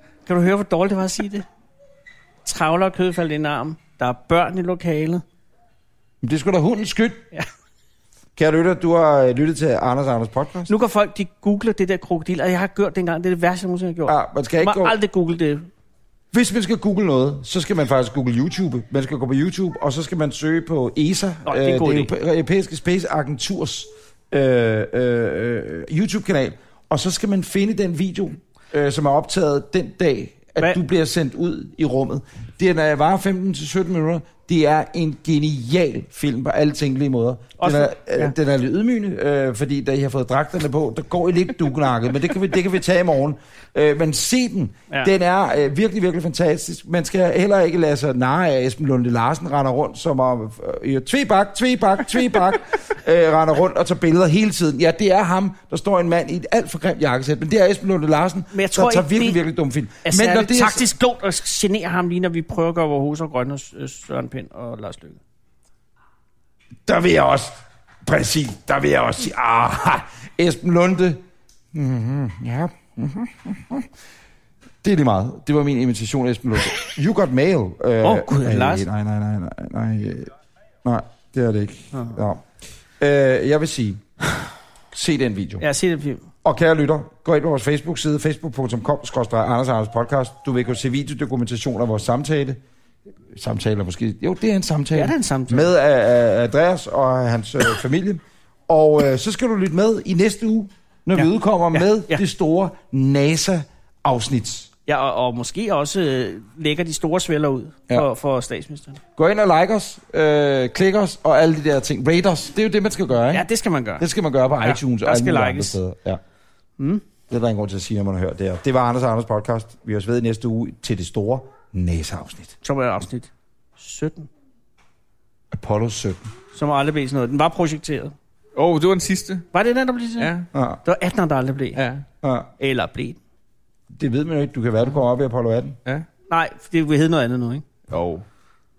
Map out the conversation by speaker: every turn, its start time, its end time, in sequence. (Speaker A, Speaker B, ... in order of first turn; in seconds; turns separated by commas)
Speaker A: 0.3-1.5, Speaker A: 2.5-5.2, Speaker B: 6.2-7.3, Speaker B: 8.4-10.7, Speaker A: 10.7-15.7, Speaker B: 14.1-15.0, Speaker B: 16.3-60.9, Speaker A: 21.5-22.1, Speaker A: 37.6-38.3, Speaker A: 58.5-59.4, Speaker A: 60.0-65.2, Speaker B: 66.9-71.2, Speaker B: 71.7-73.9, Speaker B: 74.8-80.3, Speaker A: 78.0-78.9, Speaker B: 80.8-82.5, Speaker B: 83.0-84.0, Speaker B: 84.9-85.6, Speaker A: 85.6-86.3, Speaker B: 86.4-92.6, Speaker B: 93.3-104.7, Speaker A: 95.0-95.7, Speaker A: 101.2-102.2, Speaker A: 104.9-109.0, Speaker B: 109.2-113.5, Speaker A: 113.3-114.1, Speaker B: 114.0-116.2, Speaker A: 114.6-115.8, Speaker A: 116.8-117.0, Speaker B: 117.3-122.5, Speaker A: 122.6-124.3, Speaker B: 125.5-126.2, Speaker A: 126.5-128.1, Speaker C: 128.6-129.5, Speaker A: 129.5-130.3, Speaker C: 130.2-130.5, Speaker B: 130.5-130.8, Speaker A: 130.8-131.8, Speaker C: 131.8-132.0, Speaker B: 132.2-132.5, Speaker A: 132.6-133.2, Speaker B: 133.9-135.8, Speaker A: 136.3-137.7, Speaker C: 137.9-138.3